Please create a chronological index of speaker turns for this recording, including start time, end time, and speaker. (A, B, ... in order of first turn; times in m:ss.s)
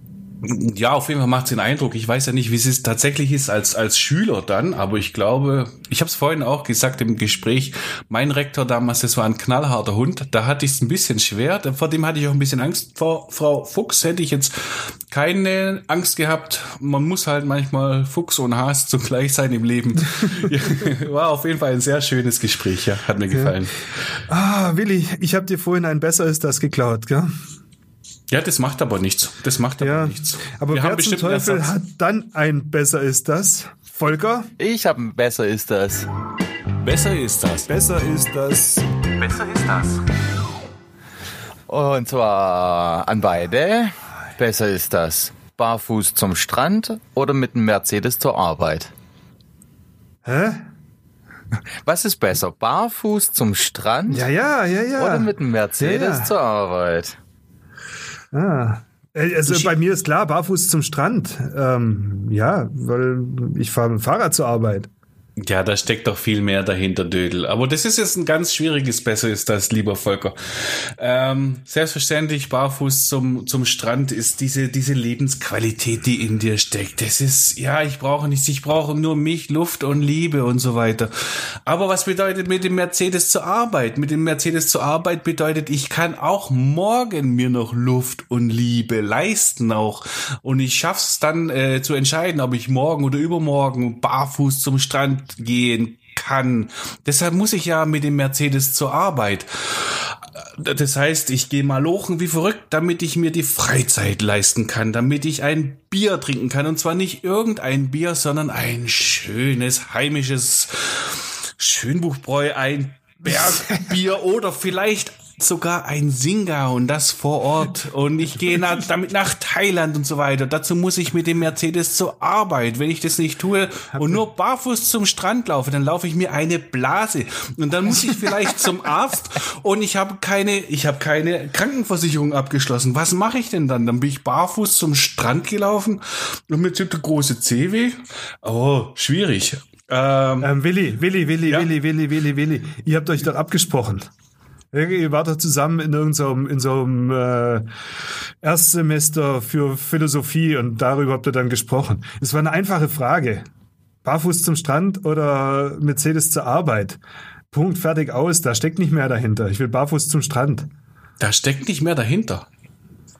0:00.4-0:23.8 A
0:24.3-0:27.3 B
0:28.3-0:31.7 A
0:29.8-0:34.5 B
0:34.6-0:36.1 C
0:36.8-0:37.7 A
0:37.7-0:38.9 B
0:39.1-0:40.0 A
0:41.7-0:48.9 C
0:50.2-0:50.6 B
0:51.8-0:54.3 C
0:54.1-0:56.3 B
0:55.0-0:57.2 C
0:58.3-1:04.9 B
1:05.4-2:20.5 A
1:53.2-1:53.6 B
2:03.9-2:04.2 B
2:07.9-2:08.5 B
2:20.4-2:24.1 B
2:24.7-2:27.7 B
2:28.4-2:33.5 B
2:34.0-2:37.0 B
2:37.5-2:40.7 B
2:41.2-2:42.5 A